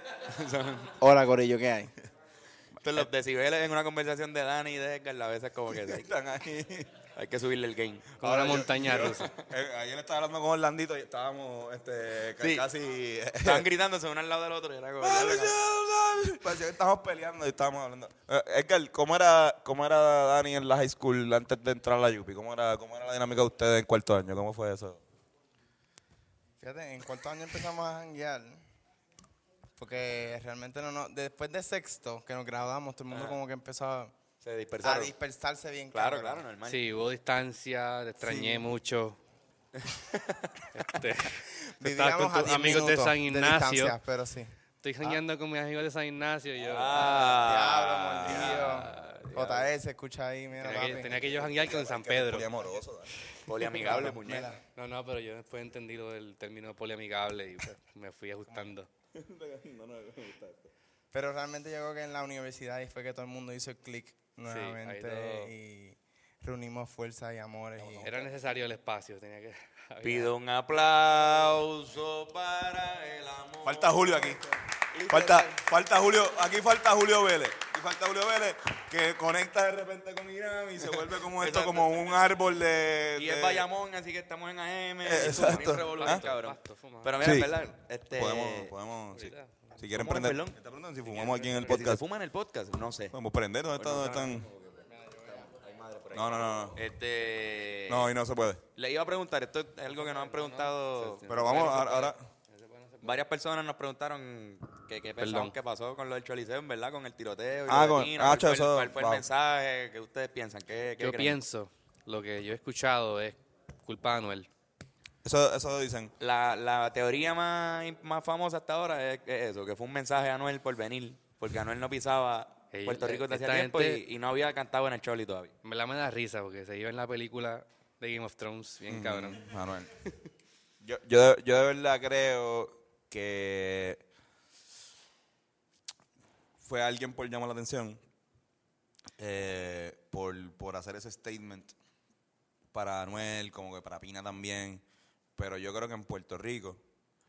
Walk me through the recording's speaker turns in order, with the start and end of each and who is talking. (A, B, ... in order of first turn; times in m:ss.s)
0:00.2-0:01.0 A
0:01.0-0:01.9 B
0:02.8-0:06.1 A
0:05.7-0:07.0 C
0:07.1-0:08.2 A
0:08.2-0:09.3 D
0:08.2-0:13.7 C
0:09.0-0:09.2 A
0:13.4-0:15.6 A
0:15.0-0:25.0 C
0:26.6-0:28.6 B
0:29.8-0:34.1 B
0:33.1-0:33.4 A
0:34.4-0:35.1 A
0:34.8-0:36.4 B
0:35.9-0:37.0 A
0:36.6-0:39.2 D
0:39.8-0:40.6 A
0:40.7-0:44.0 D
0:41.6-0:44.5 B
0:44.8-0:47.3 D
0:46.6-0:48.8 A
0:46.9-0:51.3 B
0:48.0-0:48.8 C
0:48.7-0:49.6 D
0:50.6-0:52.5 D
0:51.0-0:53.1 C
0:53.4-0:54.5 A
0:53.6-0:54.6 B
0:54.7-0:58.9 D
0:59.1-1:00.7 C
1:01.1-1:08.3 B
1:04.4-1:05.5 D
1:08.0-1:10.3 D
1:10.0-1:14.4 A
1:13.6-1:14.4 C
1:14.9-1:15.5 A
1:15.1-1:23.7 C
1:21.0-1:22.1 A
1:23.2-1:28.7 A
1:25.0-1:26.2 C
1:25.1-1:27.4 D
1:27.2-1:27.6 C
1:28.1-1:32.0 C
1:29.1-1:29.8 D
1:29.9-1:30.6 A
1:31.1-1:33.1 A
1:33.1-1:34.5 C
1:33.8-1:38.1 A
1:35.0-1:35.4 B
1:36.1-1:36.8 C
1:37.9-1:38.6 C
1:38.7-1:41.8 A
1:39.9-1:43.2 D
1:41.3-1:42.3 C
1:43.0-1:51.4 A
1:45.2-1:45.6 D
1:47.7-1:49.3 C
1:51.0-1:54.5 D
1:55.2-1:56.1 C
1:56.2-2:05.5 A
2:02.7-2:04.0 D
2:05.6-2:09.4 D
2:08.9-2:09.9 C
2:10.8-2:14.0 C
2:16.6-2:18.0 C
2:19.2-2:21.7 C
2:22.7-2:24.8 C
2:25.4-2:26.8 C